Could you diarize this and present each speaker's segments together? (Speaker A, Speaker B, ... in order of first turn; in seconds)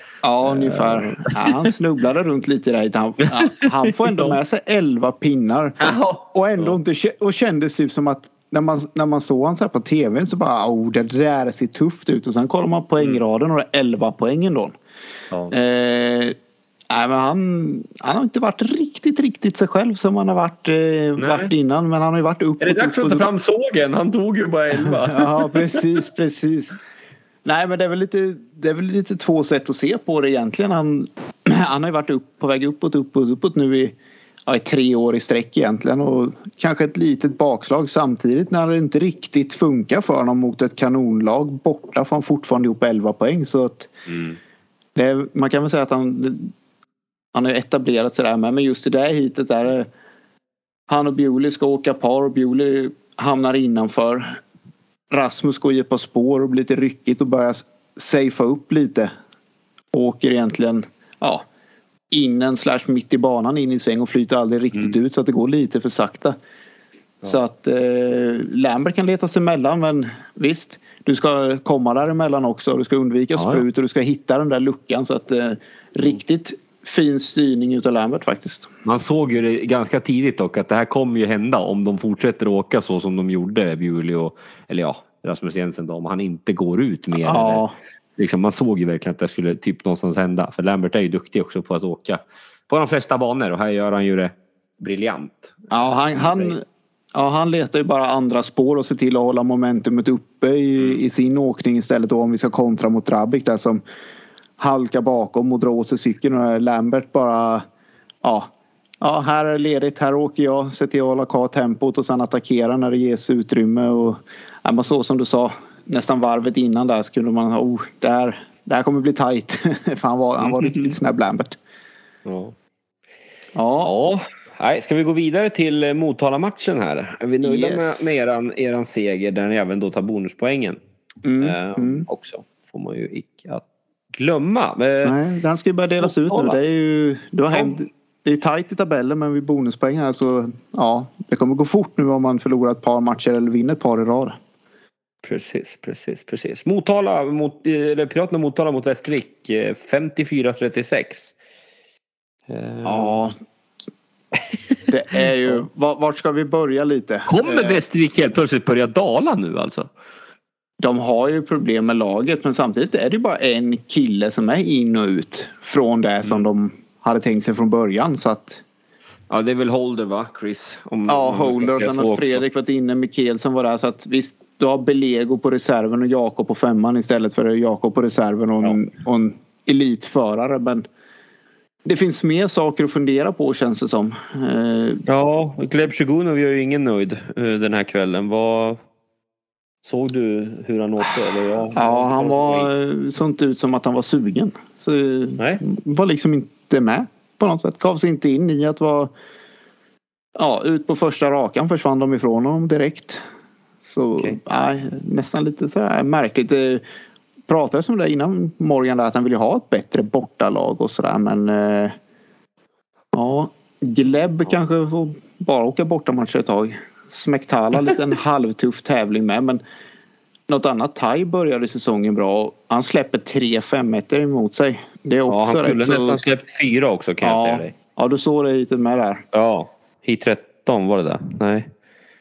Speaker A: 0.2-14.7, 15.5-16.4, 16.9-23.3, 25.1-26.8, 27.4-33.9, 34.5-43.9, 45.0-46.5, 47.3-49.9, 50.9-54.4, 55.1-59.1, 59.9-61.4, 62.1-66.3, 67.2-78.7, 87.2-87.8, 95.7-103.8, 104.6-107.6, 108.2-108.5, 109.0-121.6, 123.5-123.9, 127.4-128.1, 131.2-132.1, 135.0-144.4, 152.8-153.3, 154.9-157.8, 160.8-168.6, 171.1-180.8, 181.8-185.0, 191.8-199.1, 200.4-203.2, 203.8-206.8, 207.5-211.9, 213.1-219.6, 220.5-226.2, 227.2-229.2
Speaker B: 0.4-1.7, 3.5-4.4, 5.8-6.8, 21.2-21.5, 22.6-25.8, 44.1-44.4, 73.4-73.6, 78.8-87.7, 88.2-96.6, 120.4-120.9, 122.2-122.5, 123.8-130.8, 131.4-135.2, 136.0-136.6, 145.2-151.3, 152.5-153.2, 154.3-154.8, 157.3-159.9, 169.3-172.4, 185.1-188.8, 189.8-192.8, 225.3-227.7, 229.3-231.7